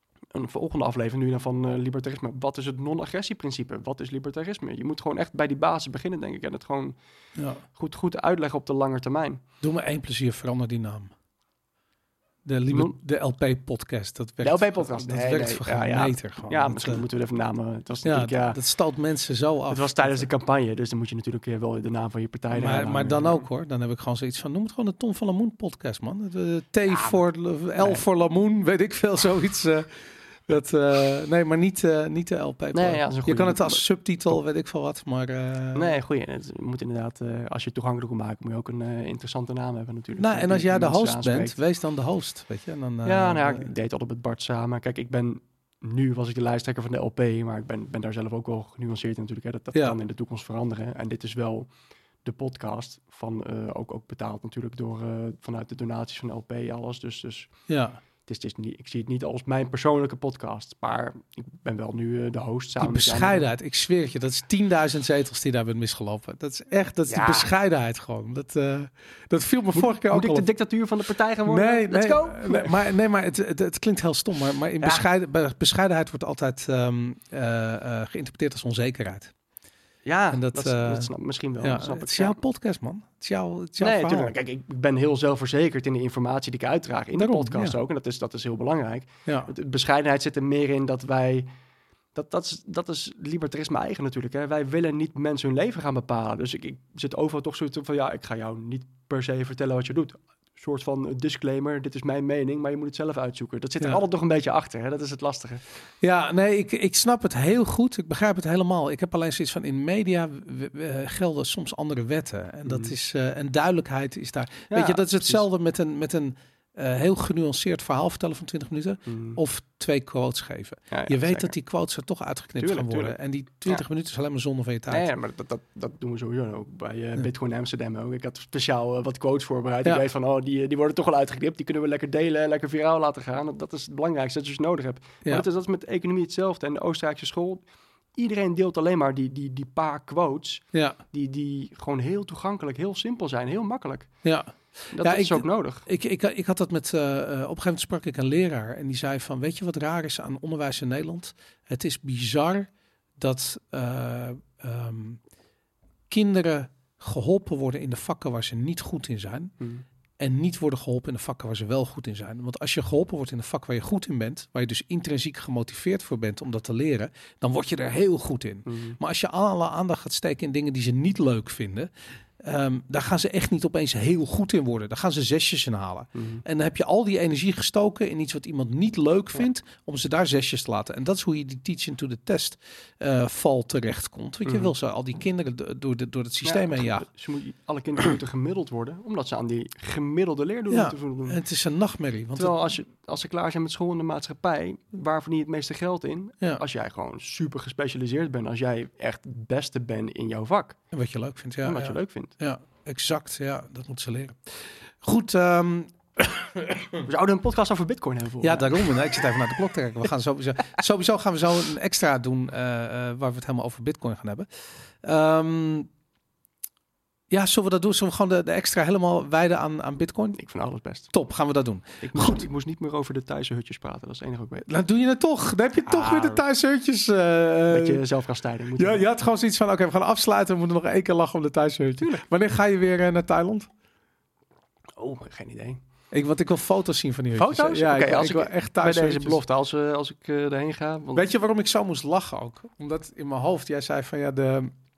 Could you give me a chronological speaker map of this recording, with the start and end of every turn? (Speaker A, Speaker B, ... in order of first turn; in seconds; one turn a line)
Speaker A: 0.3-7.0
Speaker B: 7.3-7.6
Speaker A: 7.7-9.4
Speaker B: 9.6-11.1
Speaker B: 12.4-17.0
Speaker A: 14.4-18.6
Speaker B: 18.0-20.3
Speaker A: 19.7-23.4
Speaker B: 22.5-36.0
Speaker A: 27.8-28.0
Speaker A: 32.7-33.8
Speaker A: 35.7-41.6
Speaker B: 40.2-43.7
Speaker A: 43.0-51.7
Speaker A: 52.2-57.5
Speaker B: 57.7-58.0
Speaker A: 58.2-63.4
Speaker B: 62.8-70.5
Speaker A: 67.1-67.5
Speaker A: 69.7-72.7
Speaker B: 71.5-79.3
Speaker A: 80.0-82.4
Speaker B: 80.3-84.3
Speaker A: 83.8-91.5
Speaker B: 87.2-87.7
Speaker A: 92.1-105.6
Speaker B: 106.0-125.1
Speaker A: 112.6-112.9
Speaker A: 114.7-115.4
Speaker A: 119.0-119.4
Speaker A: 120.9-121.5
Speaker A: 122.6-123.2
Speaker A: 124.9-144.1
Speaker B: 140.7-141.0
Speaker B: 144.2-155.2
Speaker A: 144.9-145.8
Speaker B: 156.1-159.5
Speaker A: 159.6-159.8
Speaker B: 160.2-187.1
Speaker A: 168.7-169.0
Speaker A: 176.1-176.4
Speaker A: 184.4-184.7
Speaker A: 186.4-191.4
Speaker B: 190.7-192.7
Speaker A: 192.3-200.8
Speaker B: 200.9-207.0
Speaker A: 201.6-202.3
Speaker A: 207.0-209.2
Speaker B: 208.4-215.9
Speaker B: 217.3-220.4
Speaker A: 220.3-221.1
Speaker B: 221.1-222.5
Speaker A: 222.0-224.7
Speaker B: 224.7-228.0
Speaker A: 225.8-226.4
Speaker A: 227.7-229.0
Speaker B: 228.8-233.7
Speaker A: 232.0-232.2
Speaker A: 235.0-235.8
Speaker B: 236.1-239.4
Speaker A: 237.3-241.2
Speaker B: 241.2-244.7